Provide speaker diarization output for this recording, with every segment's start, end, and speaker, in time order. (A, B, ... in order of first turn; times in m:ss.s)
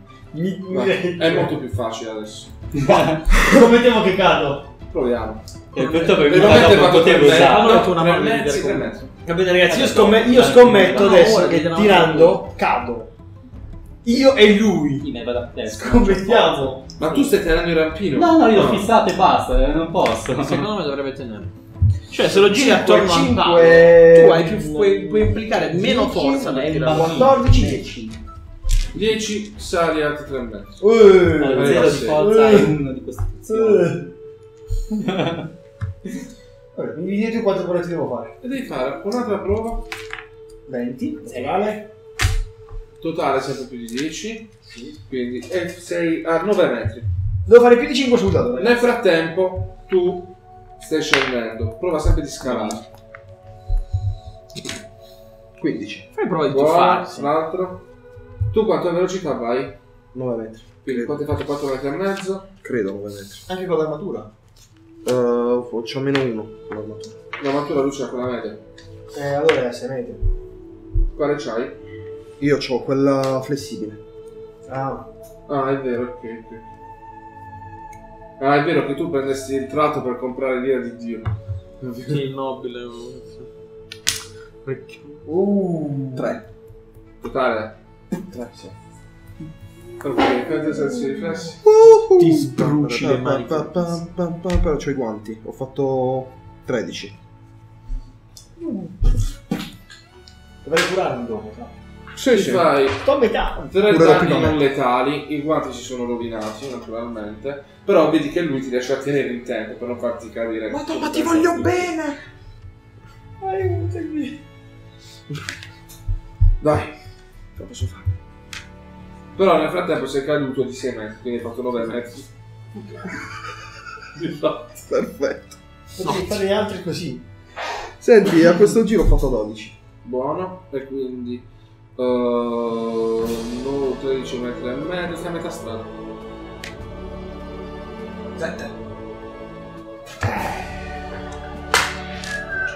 0:00.3-0:01.5 A
0:00.7-0:02.8 B
0:02.8-0:03.2 C
0:03.3-0:04.7 A
0:04.9-0:05.4 B
0:05.7-0:07.9 C
0:05.8-0:12.4 D
0:06.2-0:09.1 B
0:09.6-0:13.1 A
0:09.7-0:11.4 C
0:14.0-0:15.1 A
0:15.0-0:16.6 C
0:15.7-0:16.9 A
0:17.0-0:18.9 B
0:18.1-0:20.7 C
0:20.4-0:21.5 D
0:22.1-0:27.8 D
0:22.3-0:28.2 A
0:28.9-0:30.9 B
0:30.8-0:32.8 A
0:31.4-0:34.0 C
0:31.5-0:32.2 B
0:33.5-0:34.1 A
0:34.9-0:35.5 C
0:36.7-0:38.3 A
0:38.4-0:39.9 B
0:40.7-0:41.8 A
0:43.0-0:47.1 B
0:47.5-0:48.9 A
0:48.6-0:52.8 B
0:52.5-0:52.8 E
0:55.6-0:56.1 E
0:56.1-0:57.3 D
0:56.5-0:57.8 B
0:58.5-0:59.8 B
1:00.1-1:01.2 E
1:00.8-1:02.5 B
1:02.6-1:03.5 E
1:03.5-1:04.3 A
1:05.0-1:07.1 E
1:07.4-1:08.6 B
1:09.1-1:10.2 A
1:11.2-1:11.8 B
1:12.4-1:14.0 E
1:14.7-1:15.1 A
1:15.5-1:16.6 B
1:18.4-1:22.2 B
1:22.0-1:23.5 D
1:24.6-1:25.2 D
1:25.2-1:26.4 A
1:26.2-1:26.4 E
1:27.2-1:27.8 B
1:28.3-1:28.7 E
1:30.0-1:31.6 B
1:31.6-1:37.2 E
1:32.2-1:34.0 A
1:38.6-1:39.0 A
1:40.6-1:41.7 A
1:42.2-1:51.9 B
1:42.3-1:43.7 A
1:43.8-1:44.6 E
1:50.7-1:52.2 E
1:53.4-1:54.4 A
1:56.6-1:56.9 B
1:57.6-1:58.0 E
1:59.4-2:02.3 B
2:04.2-2:04.8 B
2:04.9-2:05.6 E
2:06.0-2:07.2 A
2:06.0-2:06.4 D
2:08.0-2:09.8 E
2:10.0-2:11.4 B
2:12.0-2:15.9 B
2:18.4-2:18.7 E